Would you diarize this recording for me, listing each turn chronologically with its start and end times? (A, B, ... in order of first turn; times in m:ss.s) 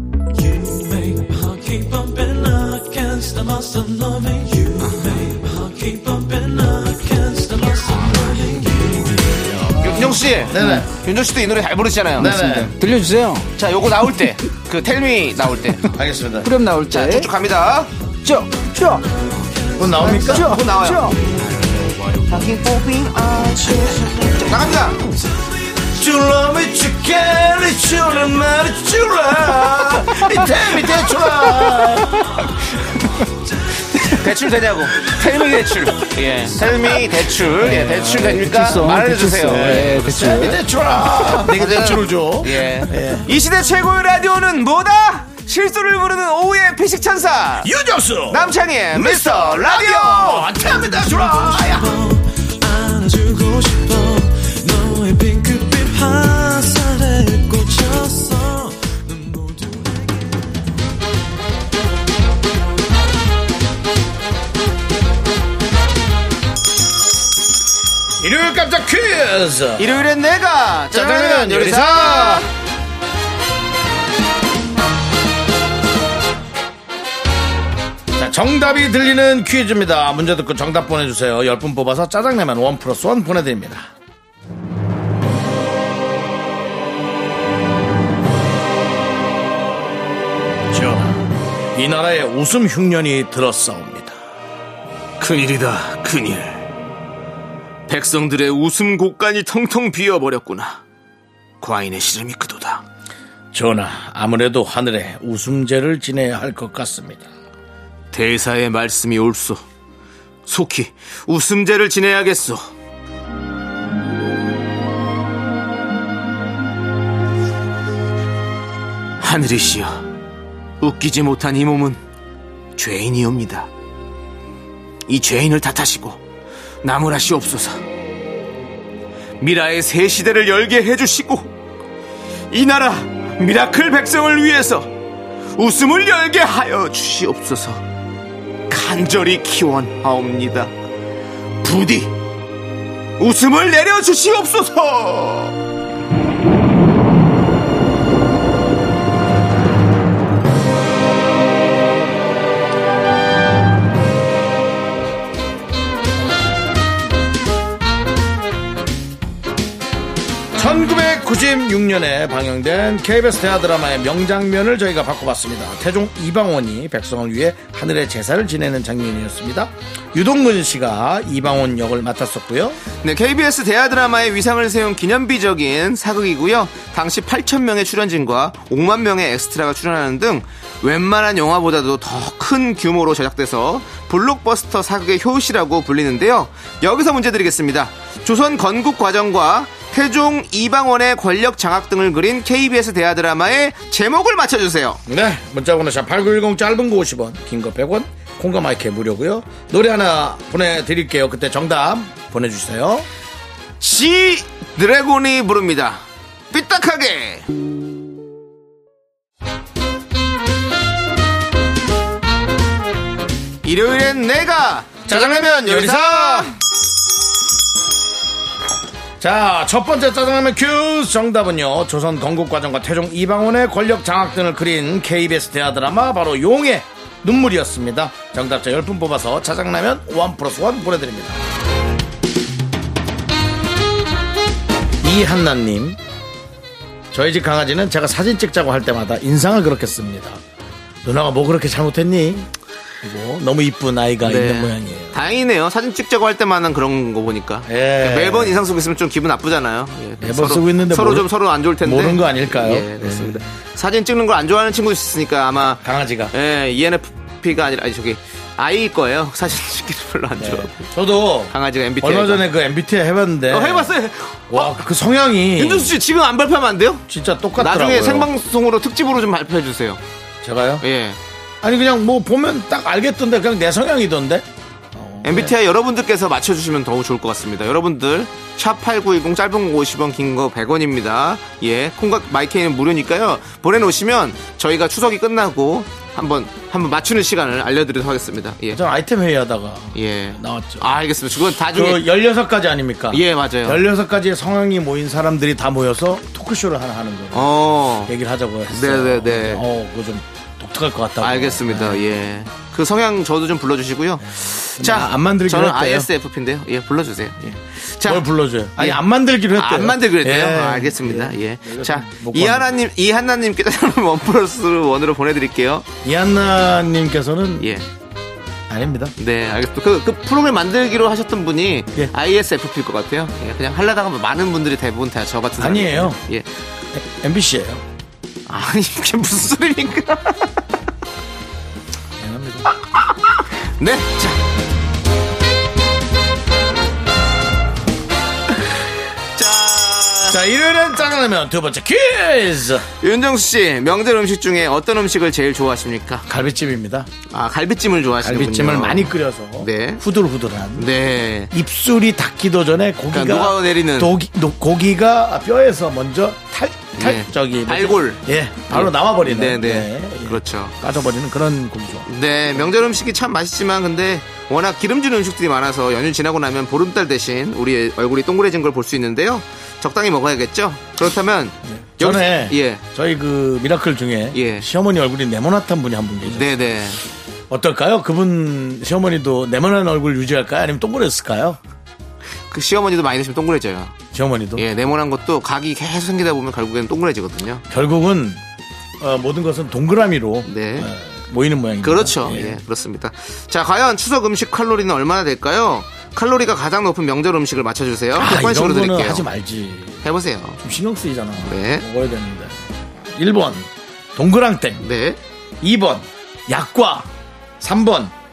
0:00.3-0:09.8 A
0:09.8-0:12.4 B
0:09.8-0:10.8 C
0:10.3-0:10.9 D
0:12.2-0:12.7 D
0:12.2-0:13.5 C
0:13.6-0:15.9 B
0:15.9-0:16.5 D
0:16.4-0:17.3 C
0:16.8-0:17.9 B
0:18.2-0:19.0 C
0:19.2-0:20.4 A
0:19.8-0:20.6 D
0:20.0-0:21.2 C
0:20.2-0:21.1 B
0:21.1-0:22.6 A
0:22.3-0:24.2 C
0:23.7-0:24.8 A
0:24.4-0:25.0 B
0:25.9-0:32.4 D
0:30.5-0:31.9 B
0:34.0-0:47.7 B
0:35.1-0:36.8 A
0:37.5-0:40.6 C
0:39.4-0:43.3 D
0:47.6-0:52.0 D
0:48.3-0:50.5 B
0:50.7-1:00.4 A
1:08.2-1:10.1 D
1:09.8-1:12.5 B
1:10.9-1:12.4 D
1:18.2-1:23.9 D
1:30.7-1:31.2 D
1:31.7-1:34.2 D
1:35.2-1:36.6 B
1:37.9-1:40.8 B
1:41.6-1:42.8 B
1:43.5-1:47.3 D
1:48.1-1:49.6 B
1:50.4-1:52.6 B
1:59.2-2:00.0 B
2:00.8-2:02.0 B
2:02.8-2:03.7 B
2:05.1-2:06.2 B
2:06.8-2:07.8 B
2:09.4-2:11.5 B
2:12.5-2:14.9 B
2:15.6-2:17.8 B
2:18.7-2:20.7 B
2:21.6-2:22.1 B
2:23.2-2:25.5 B
2:40.6-2:52.8 D
2:53.0-3:15.0 B
3:15.1-3:23.1 D
3:23.8-3:27.5 B
3:33.6-3:36.5 B
3:35.1-3:36.6 D
3:39.2-3:51.4 D
3:55.0-3:56.0 D
3:57.1-4:00.4 D
4:01.0-4:02.5 D
4:03.0-4:05.2 D
4:04.2-4:20.9 B
4:07.7-4:08.6 D
4:10.2-4:13.5 D
4:15.8-4:16.3 D
4:20.4-4:23.9 D
4:21.5-4:22.5 B
4:23.5-4:24.8 B
4:24.5-4:26.0 D
4:25.6-4:27.0 B
4:27.1-4:28.3 D
4:27.6-4:30.0 B
4:30.4-4:30.8 D
4:30.8-4:31.2 B
4:31.6-4:35.5 D
4:35.2-4:48.8 B
4:48.7-4:50.9 D
4:49.9-4:52.1 B
4:51.5-5:02.0 D
4:53.1-4:53.8 B
4:57.3-4:58.1 B
4:58.7-4:59.6 B
5:01.2-5:09.0 B
5:04.2-5:06.1 D
5:08.0-5:12.7 D
5:09.5-5:15.9 B
5:16.0-5:17.8 D
5:17.6-5:17.9 B
5:18.7-5:19.1 D
5:19.2-5:26.4 B
5:25.6-5:26.2 D
5:26.9-5:27.8 D
5:28.5-5:30.6 B
5:32.2-5:32.7 D
5:33.4-5:34.4 B
5:39.4-5:40.4 B
5:40.3-5:42.9 D
5:43.0-5:46.2 B
5:46.3-5:47.1 D
5:47.3-5:50.0 B
5:48.2-5:50.9 D
5:50.8-5:51.5 B
5:51.5-6:02.7 D
5:53.1-5:54.1 B
5:57.0-6:00.7 B
6:02.1-6:12.8 B
6:11.7-6:16.6 D
6:14.3-6:14.7 B
6:16.2-6:17.0 B
6:17.5-6:21.6 D
6:22.5-6:24.0 B
6:24.1-6:24.6 D
6:24.6-6:27.6 B
6:27.7-6:28.4 D
6:29.0-6:32.6 D
6:30.4-6:30.9 B
6:31.8-6:39.2 B
6:38.1-6:40.0 D
6:40.0-6:40.6 B
6:40.6-6:44.8 D
6:41.4-6:41.8 B
6:44.8-6:45.2 B
6:45.6-6:47.1 D
6:47.6-6:48.1 D